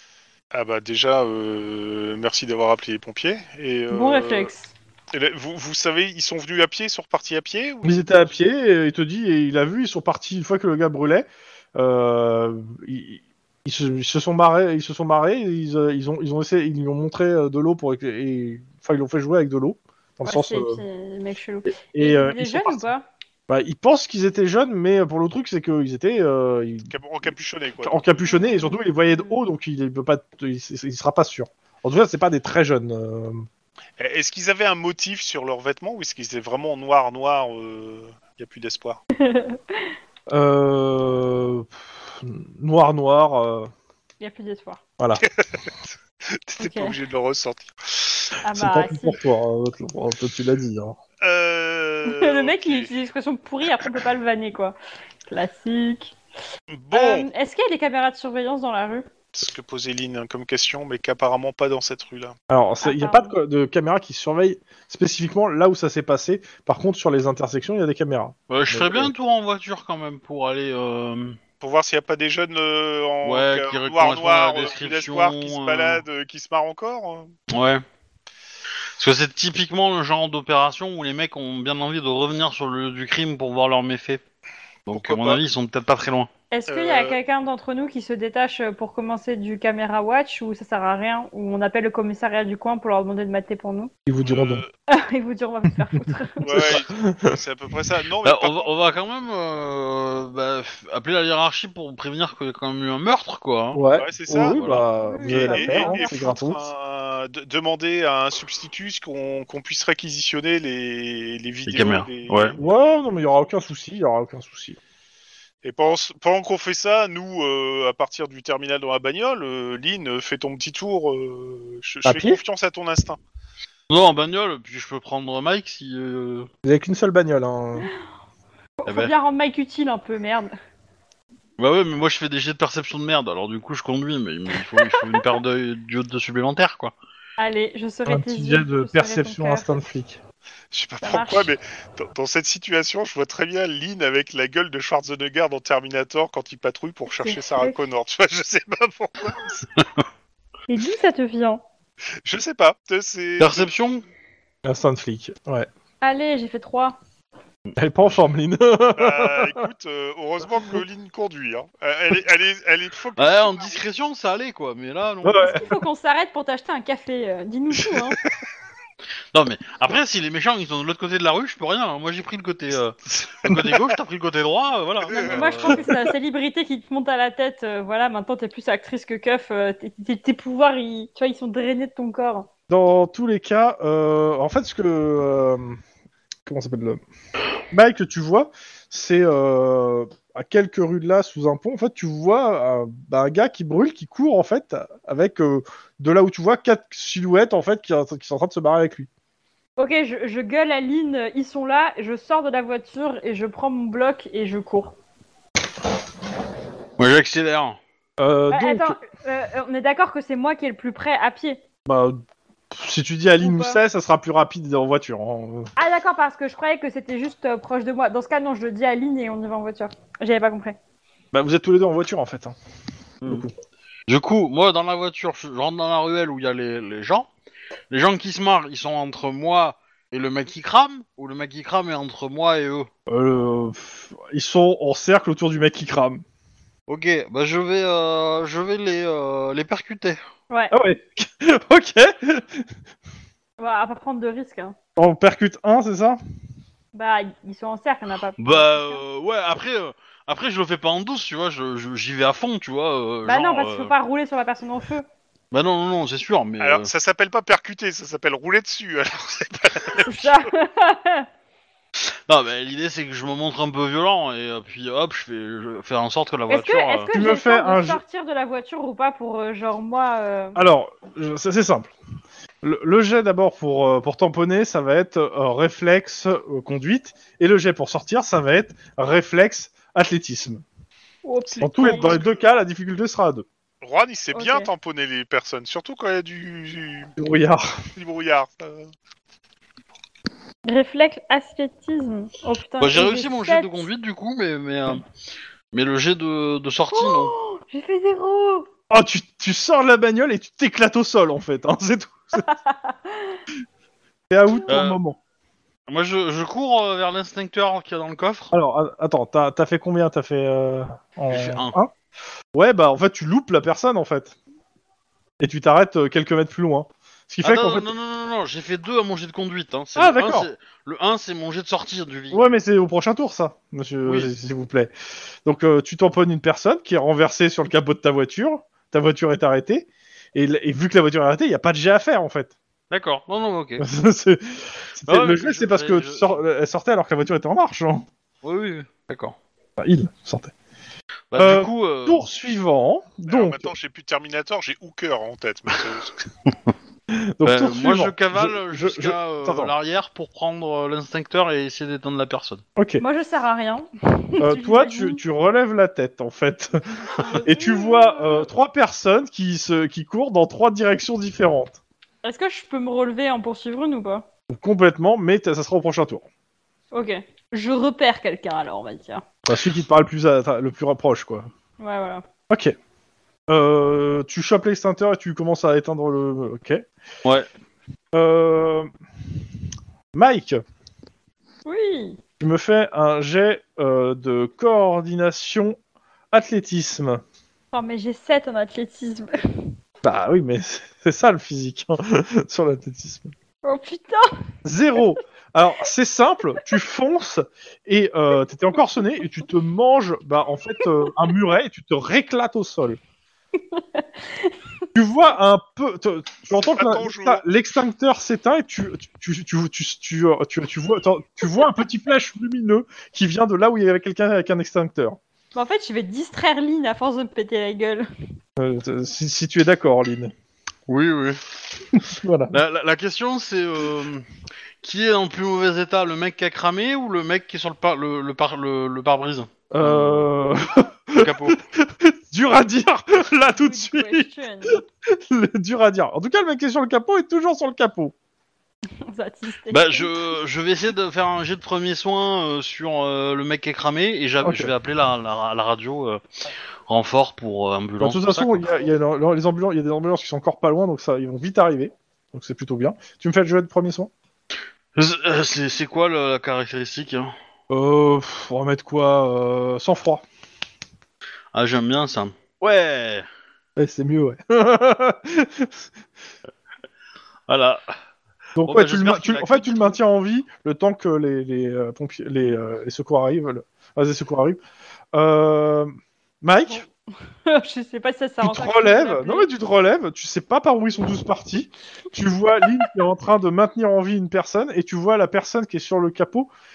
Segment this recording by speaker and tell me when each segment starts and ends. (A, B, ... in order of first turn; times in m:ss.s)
0:00.5-0:04.5 A
0:03.9-0:04.7 B
0:05.1-0:08.3 A
0:07.8-0:20.8 C
0:20.2-0:23.1 B
0:21.9-0:22.9 C
0:23.5-0:26.9 C
0:26.9-0:28.0 A
0:27.8-0:33.5 C
0:28.3-0:29.4 B
0:34.0-0:39.0 A
0:39.2-0:39.9 B
0:40.3-0:43.7 C
0:44.2-0:44.8 B
0:45.2-0:45.7 A
0:46.3-0:48.3 A
0:46.6-0:47.0 B
0:48.4-0:49.2 B
0:48.6-0:51.0 C
0:51.2-0:52.9 A
0:52.0-0:54.8 B
0:55.3-0:56.2 B
0:56.7-0:57.3 A
0:56.9-0:59.1 B
0:59.3-1:02.4 A
1:02.5-1:09.1 C
1:02.8-1:03.3 B
1:08.5-1:11.4 D
1:11.6-1:17.3 A
1:13.2-1:16.0 D
1:17.5-1:17.8 D
1:19.0-1:24.2 D
1:24.9-1:26.3 D
1:24.9-1:25.4 A
1:26.5-1:33.9 B
1:26.7-1:27.2 A
1:34.1-1:34.6 C
1:34.2-1:34.7 A
1:34.9-1:36.8 B
1:36.4-1:37.4 C
1:36.4-1:38.7 A
1:38.2-1:44.9 D
1:43.7-1:46.7 C
1:44.0-1:44.6 A
1:45.0-1:46.2 B
1:45.2-1:52.6 A
1:51.7-1:52.6 D
1:52.6-1:54.8 C
1:55.6-2:03.2 A
2:02.0-2:02.4 C
2:03.9-2:06.5 D
2:06.6-2:07.9 C
2:08.8-2:10.5 B
2:11.6-2:16.9 D
2:17.4-2:19.7 B
2:18.1-2:20.2 C
2:20.7-2:29.7 A
2:21.0-2:21.5 B
2:27.1-2:27.8 B
2:30.7-2:31.6 B
2:32.2-2:33.8 A
2:33.4-2:34.0 D
2:34.6-2:35.7 C
2:36.0-2:37.0 B
2:37.8-2:39.7 C
2:39.0-2:43.8 A
2:43.2-2:45.6 D
2:45.2-2:45.6 C
2:45.4-2:48.2 B
2:49.3-2:55.9 D
2:55.1-2:55.4 A
2:55.2-3:02.5 B
3:02.7-3:05.8 C
3:06.4-3:07.0 C
3:07.7-3:19.1 C
3:19.8-3:25.0 B
3:27.0-3:27.8 D
3:28.2-3:29.0 C
3:28.5-3:31.6 B
3:31.9-3:35.7 C
3:33.4-3:33.8 B
3:35.8-3:40.8 B
3:41.3-3:42.6 C
3:43.2-3:43.5 C
3:44.1-3:47.3 D
3:47.9-3:52.9 D
3:53.1-3:56.2 C
3:56.9-4:00.2 D
4:00.5-4:00.8 B
4:00.7-4:02.7 C
4:03.6-4:04.8 B
4:05.0-4:06.2 C
4:06.9-4:09.0 B
4:08.4-4:13.9 D
4:13.2-4:15.1 B
4:15.5-4:16.9 D
4:16.6-4:20.3 A
4:20.0-4:21.3 B
4:22.0-4:27.1 D
4:26.5-4:30.6 B
4:27.1-4:28.0 C
4:30.6-4:31.9 C
4:32.6-4:40.6 C
4:41.2-4:42.2 B
4:41.6-4:43.5 C
4:41.8-4:42.4 A
4:43.8-4:47.1 A
4:44.3-4:44.7 B
4:47.2-4:47.7 C
4:48.0-4:48.9 A
4:50.7-4:53.9 B
4:52.8-4:55.0 D
4:55.7-4:57.3 D
4:56.9-4:58.7 B
4:58.9-5:02.4 C
5:02.3-5:03.4 B
5:04.3-5:05.2 C
5:04.7-5:05.0 D
5:05.9-5:08.5 D
5:08.5-5:11.9 C
5:11.3-5:11.8 D
5:12.5-5:14.4 C
5:15.4-5:17.9 C
5:17.4-5:22.6 D
5:20.0-5:20.5 C
5:22.3-5:24.9 C
5:25.4-5:32.6 C
5:32.9-5:33.8 D
5:33.8-5:38.1 C
5:35.1-5:36.3 D
5:38.4-5:39.4 D
5:39.8-5:40.5 C
5:41.3-5:42.2 D
5:41.4-5:43.7 C
5:43.3-5:46.3 A
5:47.1-5:49.7 C
5:47.4-5:52.6 D
5:52.8-5:53.0 C
5:53.0-5:55.2 B
5:54.4-5:56.8 C
5:57.0-5:58.5 B
5:57.4-6:01.8 C
6:02.2-6:04.2 B
6:04.5-6:06.2 C
6:06.9-6:09.2 B
6:09.5-6:11.5 C
6:11.8-6:12.2 B
6:12.5-6:12.8 C
6:13.5-6:16.8 C
6:18.1-6:18.9 C
6:20.1-6:20.6 C
6:21.7-6:22.2 B
6:22.4-6:25.8 C
6:26.3-6:27.2 C
6:27.7-6:29.4 B
6:30.0-6:33.3 C
6:33.6-6:34.3 B
6:34.6-6:43.0 C
6:43.7-6:44.6 B
6:45.0-6:55.2 C
6:46.6-6:47.4 A
6:55.5-6:58.1 B
6:58.6-7:00.3 C
7:00.9-7:01.4 D
7:02.0-7:02.6 C
7:02.5-7:04.2 D
7:04.8-7:10.3 D
7:09.7-7:18.1 C
7:11.2-7:11.6 D
7:13.6-7:14.8 B
7:19.1-7:20.4 B
7:19.7-7:26.2 D
7:24.4-7:24.7 C
7:26.9-7:28.7 D
7:28.0-7:34.1 C
7:35.0-7:37.3 D
7:37.7-7:40.2 C
7:41.5-7:43.3 D
7:43.8-7:45.9 C
7:47.5-7:47.9 D
7:48.6-7:54.6 C
7:48.7-7:50.0 D
7:55.1-7:55.9 C
7:56.4-7:56.8 C
7:57.5-7:59.5 B
7:58.4-8:06.5 C